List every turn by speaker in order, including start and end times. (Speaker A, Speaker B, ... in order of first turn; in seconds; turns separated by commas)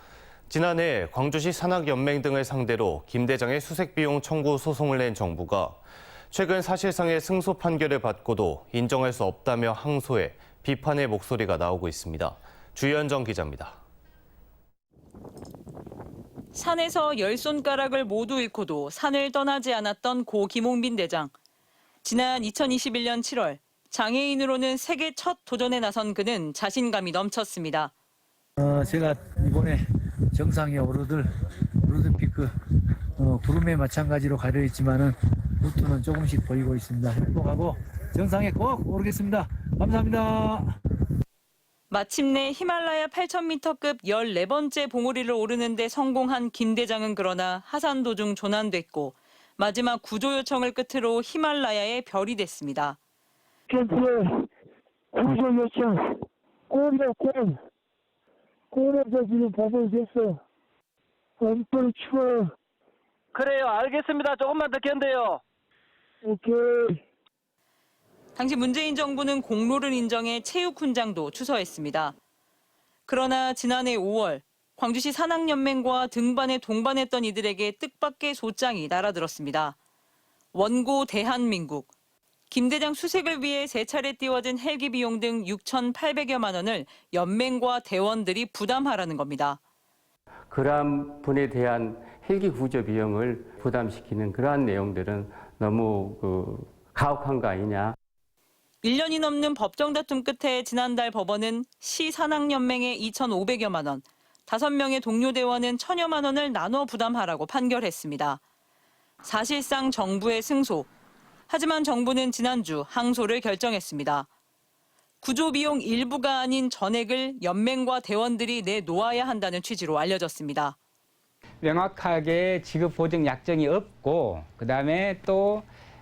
Speaker A: 0.5-5.8, Speaker A: 6.3-13.8, Speaker B: 16.5-21.3, Speaker B: 22.0-27.9, Speaker C: 28.6-29.8, Speaker C: 30.3-31.3, Speaker C: 31.8-32.5, Speaker C: 33.2-40.7, Speaker B: 41.9-53.0, Speaker D: 53.7-54.4, Speaker D: 55.1-56.1, Speaker D: 56.7-57.6, Speaker D: 58.7-60.4, Speaker D: 61.4-62.5, Speaker E: 63.3-65.4, Speaker D: 66.2-67.0, Speaker B: 68.3-72.2, Speaker B: 73.1-79.8, Speaker B: 80.5-81.9, Speaker B: 82.5-89.6, Speaker F: 90.5-98.0, Speaker B: 98.8-108.4, Speaker B: 109.2-110.9, Speaker B: 111.5-114.3, Speaker B: 115.2-120.8, Speaker G: 121.6-125.7